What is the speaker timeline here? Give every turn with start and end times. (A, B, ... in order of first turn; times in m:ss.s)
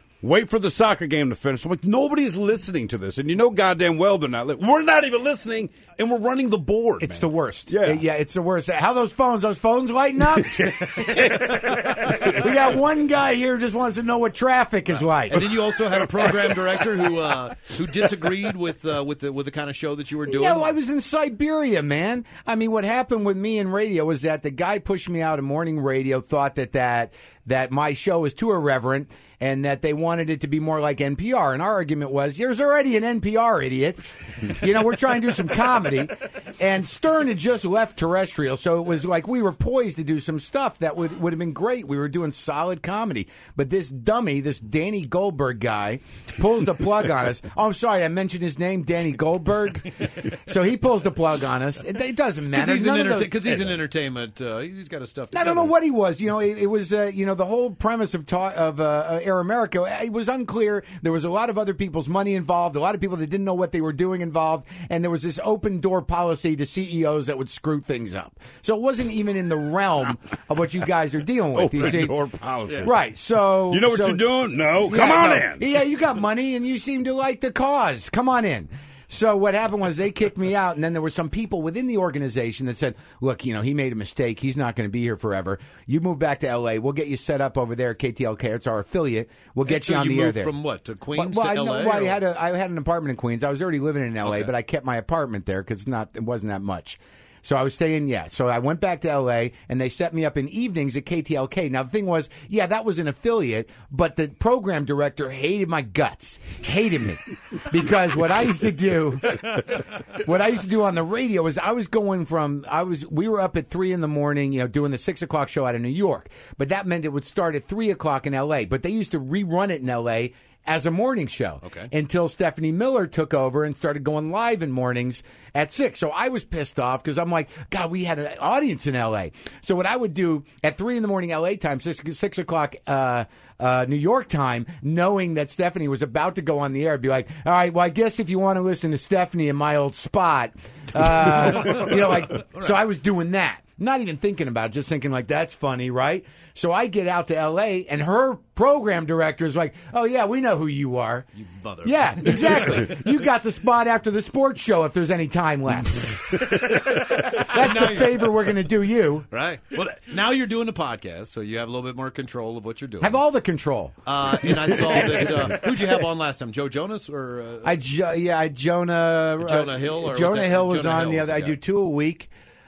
0:00.2-0:08.0 A
0:07.0-0:15.5 B
0:15.3-0:20.8 C
0:20.2-0:53.8 B
0:52.5-0:55.7 C
0:55.3-1:12.2 B
1:11.5-1:12.9 A
1:12.8-1:30.5 B
1:13.7-1:15.6 A
1:29.7-1:32.2 C
1:31.1-2:31.3 B
1:34.2-1:34.5 C
2:01.6-2:01.9 C
2:21.6-2:22.8 C
2:31.4-2:33.0 C
2:31.8-2:39.3 B
2:36.6-2:38.4 C
2:39.3-2:43.2 C
2:43.0-2:44.0 B
2:44.1-2:47.8 C
2:44.7-2:45.2 B
2:47.6-2:52.3 B
2:49.4-2:51.6 C